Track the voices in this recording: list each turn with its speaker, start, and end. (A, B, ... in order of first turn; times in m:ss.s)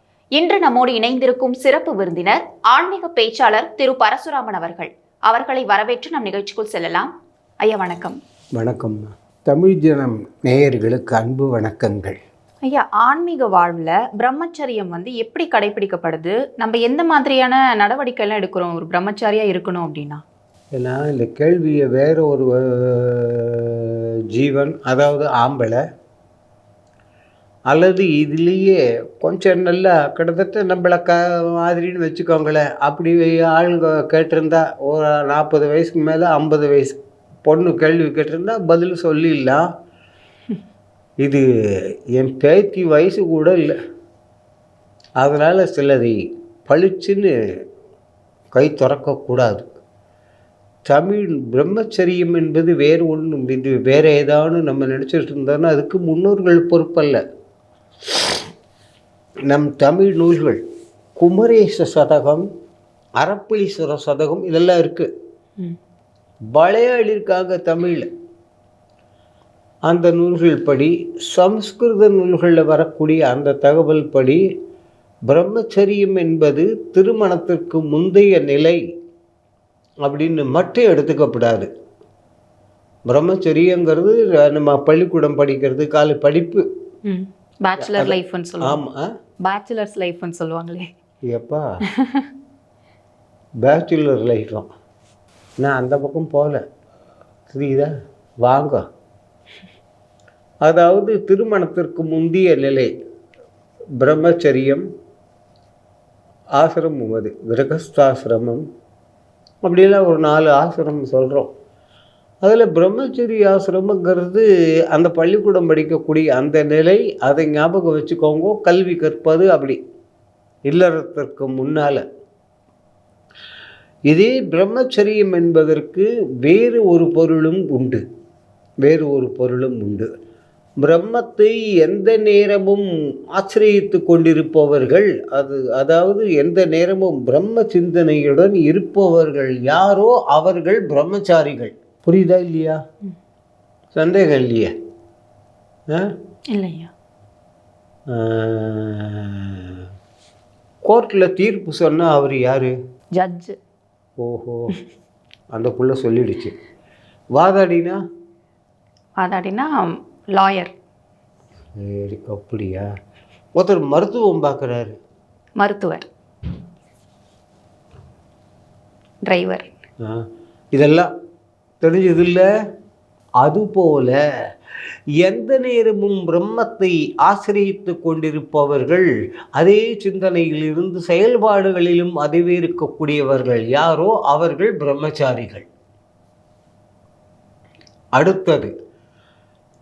0:00.3-0:07.1 A
0:07.6-0:08.2 A
0:08.5-0:12.2 B
0:12.6-0:20.2 A
0:20.7-0:25.8 B
0:27.7-0:39.6 B
0:41.2-0:43.8 B
0:45.2-0:47.3 B
0:48.5-0:49.6 B
0:50.9-0:57.2 B
0:58.0-0:58.4 B
0:59.5-1:00.6 B
1:01.2-1:02.4 B
1:03.2-1:05.1 B
1:06.5-1:08.1 B
1:09.8-1:14.4 B
1:15.3-1:18.8 B
1:20.0-1:21.7 B
1:23.1-1:26.6 B
1:27.0-1:28.8 A
1:27.8-1:29.1 B
1:29.4-1:30.9 A
1:31.3-1:31.6 B
1:31.9-1:32.3 A
1:33.6-1:34.7 B
1:35.6-1:36.6 B
1:37.5-1:38.8 B
1:40.6-1:42.9 B
1:44.0-1:44.8 B
1:46.5-1:48.6 B
1:49.6-1:51.5 B
1:52.4-1:59.8 B
2:00.7-2:02.0 B
2:04.1-2:08.0 B
2:08.8-2:10.1 B
2:10.8-2:22.8 B
2:23.9-2:24.7 B
2:26.5-2:26.9 A
2:28.1-2:29.8 B
2:30.8-2:32.7 B
2:33.1-2:33.6 A
2:34.2-2:34.7 B
2:35.5-2:36.5 B
2:37.3-2:38.0 B
2:39.2-2:40.7 A
2:41.8-2:42.9 B
2:43.5-2:45.0 B
2:45.6-2:46.0 A
2:49.2-2:49.7 A
2:50.0-2:51.1 B
2:51.8-2:52.4 B
2:53.4-2:54.2 B
2:55.2-3:05.7 B
3:08.1-3:08.7 B